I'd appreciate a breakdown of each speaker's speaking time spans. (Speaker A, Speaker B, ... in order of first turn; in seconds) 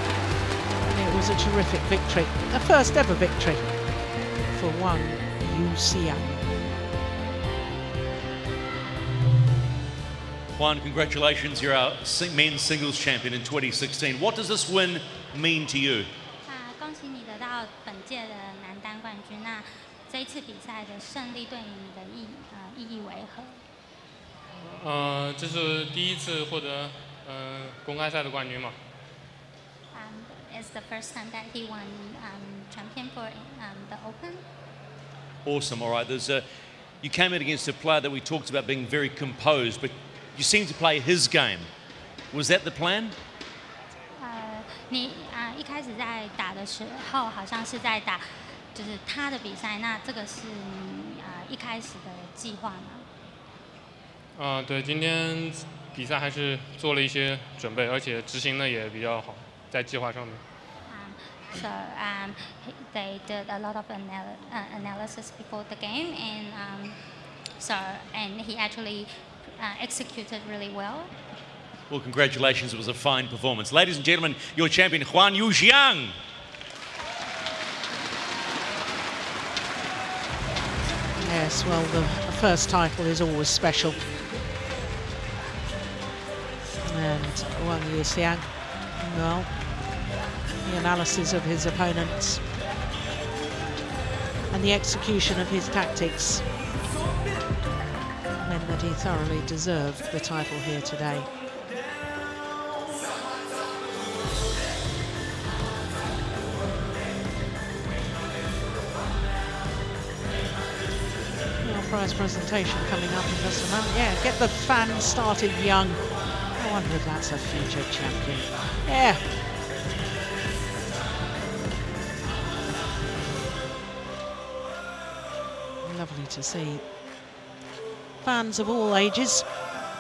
Speaker A: 0.8-3.8, 4.5-6.5, 81.2-84.0, 86.8-89.5, 90.6-92.4, 94.5-96.5, 98.4-101.3, 111.6-119.2, 125.8-126.8, 128.2-129.5
Speaker B: 10.6-16.1, 35.4-36.5, 37.0-41.7, 42.3-43.1, 71.9-76.2
Speaker C: 16.5-23.6, 29.9-34.4, 44.2-53.1, 60.9-67.0, 67.6-71.1
Speaker D: 24.6-28.8, 54.4-60.4